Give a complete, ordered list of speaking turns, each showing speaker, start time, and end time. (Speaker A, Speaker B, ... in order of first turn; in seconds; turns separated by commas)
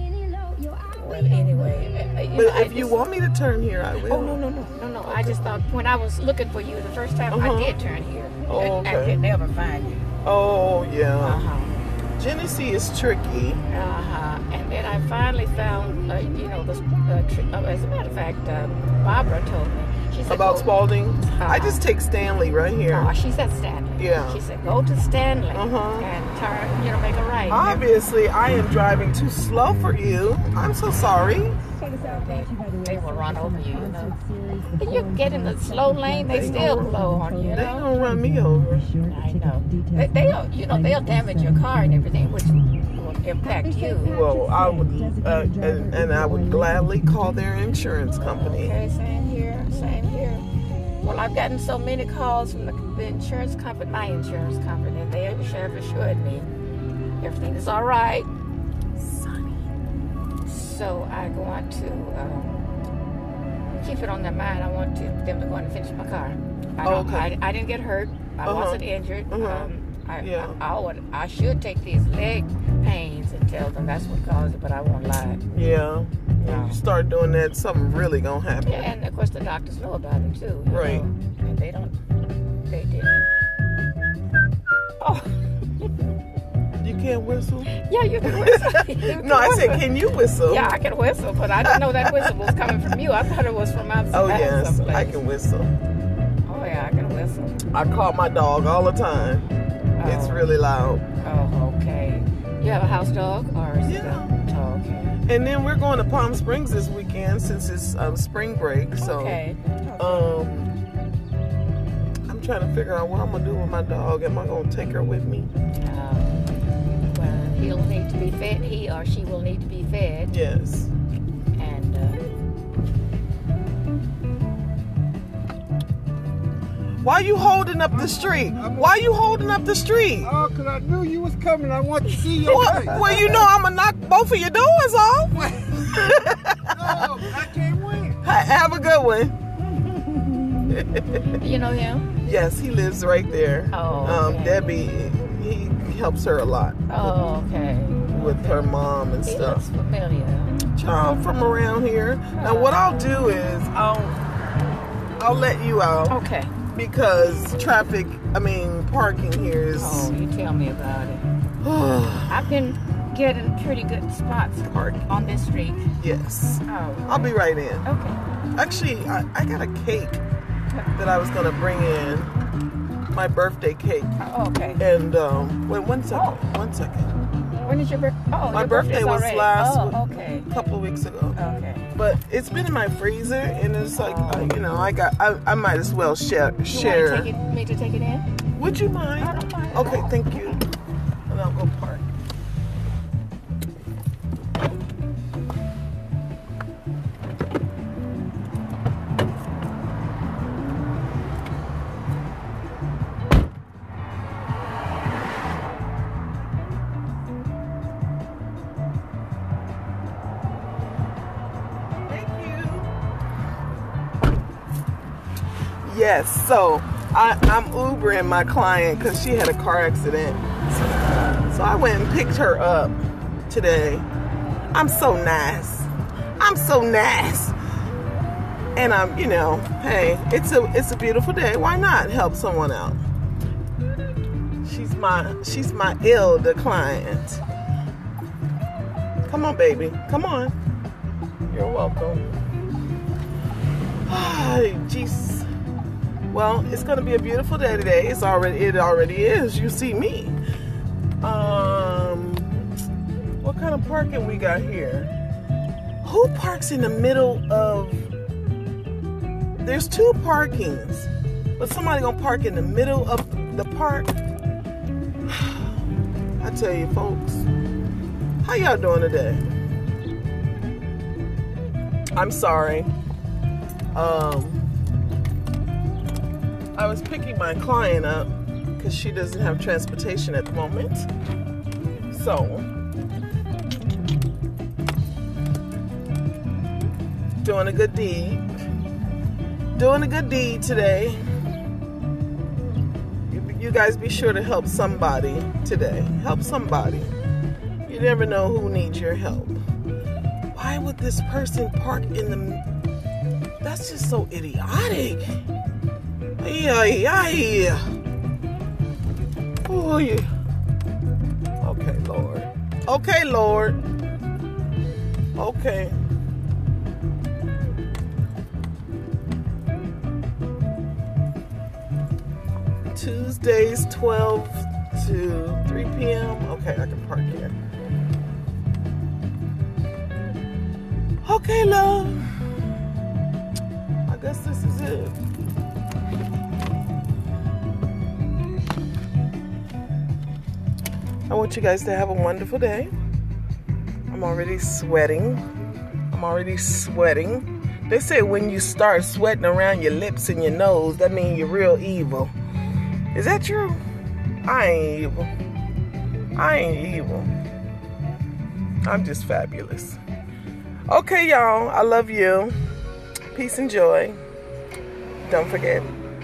Speaker A: 0.9-3.0, Speaker B: 2.4-4.4, Speaker A: 4.1-10.0, Speaker B: 7.3-7.8, Speaker B: 8.5-9.2, Speaker B: 10.2-11.4, Speaker A: 11.2-11.8, Speaker B: 12.2-13.6, Speaker A: 13.7-21.8, Speaker B: 20.3-23.1, Speaker A: 22.9-27.8, Speaker B: 24.0-24.4, Speaker B: 25.5-26.1, Speaker B: 27.5-31.6, Speaker A: 32.0-34.2, Speaker A: 34.8-37.9, Speaker B: 36.3-39.0, Speaker A: 39.1-44.2, Speaker B: 44.0-48.7, Speaker A: 48.2-50.5, Speaker A: 51.0-56.5, Speaker A: 57.2-58.3, Speaker B: 59.0-59.7, Speaker A: 60.5-62.6, Speaker A: 63.7-75.4, Speaker B: 66.8-67.3, Speaker B: 68.5-70.6, Speaker B: 75.5-78.9, Speaker A: 76.4-76.8, Speaker A: 78.6-82.0, Speaker B: 80.7-81.0, Speaker A: 82.7-83.3, Speaker A: 85.0-85.8, Speaker B: 86.8-87.7, Speaker A: 87.7-89.9, Speaker B: 88.2-90.7, Speaker A: 90.4-95.2, Speaker B: 91.7-92.3, Speaker B: 94.1-95.7, Speaker A: 96.5-97.6, Speaker B: 97.7-99.5, Speaker A: 100.0-100.5, Speaker B: 100.0-101.0, Speaker A: 101.2-105.2, Speaker B: 103.8-104.4, Speaker B: 105.3-109.4, Speaker A: 109.0-110.3, Speaker B: 110.0-110.7, Speaker B: 112.3-115.5, Speaker A: 115.8-116.4, Speaker A: 117.1-120.3, Speaker B: 120.3-120.9, Speaker A: 121.6-122.2, Speaker B: 127.0-130.4, Speaker C: 128.6-128.9, Speaker C: 130.2-133.0, Speaker A: 132.3-133.4, Speaker B: 132.4-137.4, Speaker C: 135.4-135.7, Speaker C: 136.8-138.2, Speaker B: 138.2-139.3, Speaker A: 139.7-142.1, Speaker B: 140.7-141.4, Speaker B: 142.2-147.2, Speaker A: 143.7-144.8, Speaker A: 146.9-148.7, Speaker B: 148.1-149.7, Speaker A: 149.2-150.6, Speaker B: 150.6-154.2, Speaker A: 152.4-153.2, Speaker B: 155.2-160.1, Speaker A: 156.1-156.5, Speaker A: 159.8-161.2, Speaker B: 161.6-162.5, Speaker A: 162.3-165.9, Speaker B: 164.7-165.4, Speaker B: 166.0-167.9, Speaker A: 166.7-168.2, Speaker B: 168.6-170.2, Speaker B: 171.0-172.3, Speaker B: 173.1-174.2, Speaker A: 174.2-174.8, Speaker B: 174.8-177.1, Speaker A: 176.1-176.4, Speaker A: 177.6-180.5, Speaker B: 178.5-181.4, Speaker A: 181.4-181.9, Speaker B: 181.9-187.3, Speaker A: 184.0-184.6, Speaker A: 186.7-188.3, Speaker B: 188.5-190.6, Speaker A: 189.2-190.7, Speaker B: 191.3-192.1, Speaker B: 212.1-212.9, Speaker B: 215.8-223.0, Speaker B: 223.5-224.1, Speaker B: 224.7-227.6, Speaker B: 228.8-233.0, Speaker B: 234.6-237.4, Speaker B: 239.3-240.6, Speaker B: 241.5-242.4, Speaker B: 244.1-245.5, Speaker B: 246.3-250.4, Speaker B: 251.2-252.5, Speaker B: 253.4-255.1, Speaker B: 256.0-258.1, Speaker B: 259.6-264.1, Speaker B: 265.3-265.7, Speaker B: 266.4-267.5, Speaker B: 268.4-269.4, Speaker B: 272.1-272.9, Speaker B: 273.9-274.7, Speaker B: 276.8-281.1, Speaker B: 282.1-282.7, Speaker B: 287.4-288.4, Speaker B: 289.8-291.2, Speaker B: 293.3-297.1, Speaker B: 297.9-299.6, Speaker B: 300.5-302.6, Speaker B: 303.6-305.4, Speaker B: 306.4-307.9, Speaker B: 309.7-310.3, Speaker B: 311.6-313.8, Speaker B: 315.4-316.0, Speaker B: 322.9-327.6, Speaker B: 331.2-332.5, Speaker B: 334.1-335.2, Speaker B: 341.3-342.9, Speaker B: 344.1-345.4, Speaker B: 346.1-352.3, Speaker B: 353.1-353.8, Speaker B: 354.4-355.3, Speaker B: 356.4-357.3, Speaker B: 358.8-360.0, Speaker B: 360.9-362.6, Speaker B: 363.3-364.2, Speaker B: 365.2-365.9